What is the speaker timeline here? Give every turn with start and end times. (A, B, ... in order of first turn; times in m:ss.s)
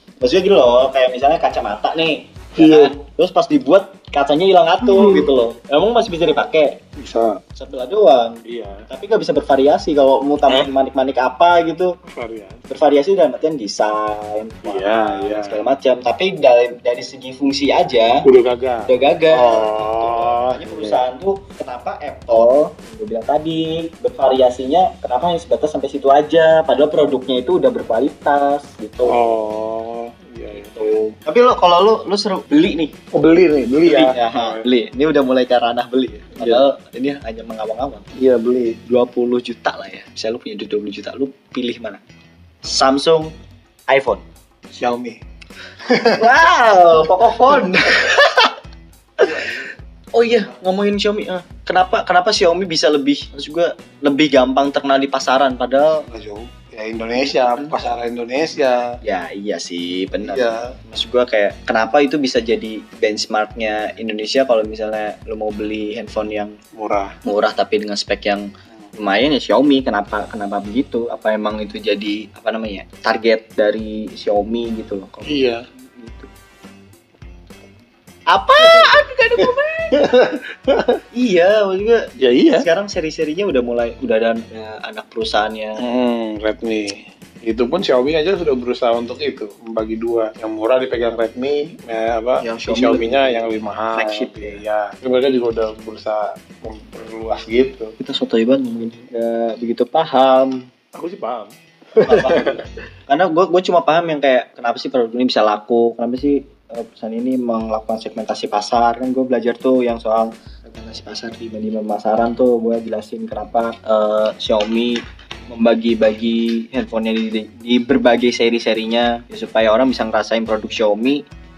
0:00.2-0:06.8 A
0:02.6-0:03.0 B
0:04.8-0:05.3 B
0:07.0-0:07.4 B
0:07.6-0:11.9 A
0:08.5-0:08.9 B
0:12.1-0:12.6 B
0:12.7-0:18.2 A
0:14.6-0:15.6 B
0:18.2-0:21.0 B
0:18.8-0:29.2 A
0:29.0-0:31.0 B
0:30.5-0:32.9 A
0:33.1-0:34.7 B
0:33.8-0:38.1 A
0:36.4-0:36.6 B
0:38.2-0:38.8 B
0:38.8-0:42.0 A
0:42.6-0:43.3 A
0:43.9-0:44.2 A
0:44.7-0:45.2 B
0:45.9-0:46.3 B
0:46.2-0:48.5 A
0:49.2-0:49.7 B
0:49.2-0:49.6 A
0:50.1-0:56.0 A
0:56.1-0:59.0 B
0:57.5-0:57.8 A
0:59.0-1:06.6 A
1:00.2-1:00.8 B
1:06.8-1:07.2 B
1:07.2-1:16.3 A
1:15.3-1:15.6 B
1:18.3-1:20.0 A
1:18.6-1:21.0 B
1:21.1-1:25.8 A
1:22.2-1:22.7 B
1:25.8-1:37.9 B
1:32.4-1:34.6 A
1:38.0-1:40.7 A
1:41.0-1:42.6 B
1:42.0-2:01.2 A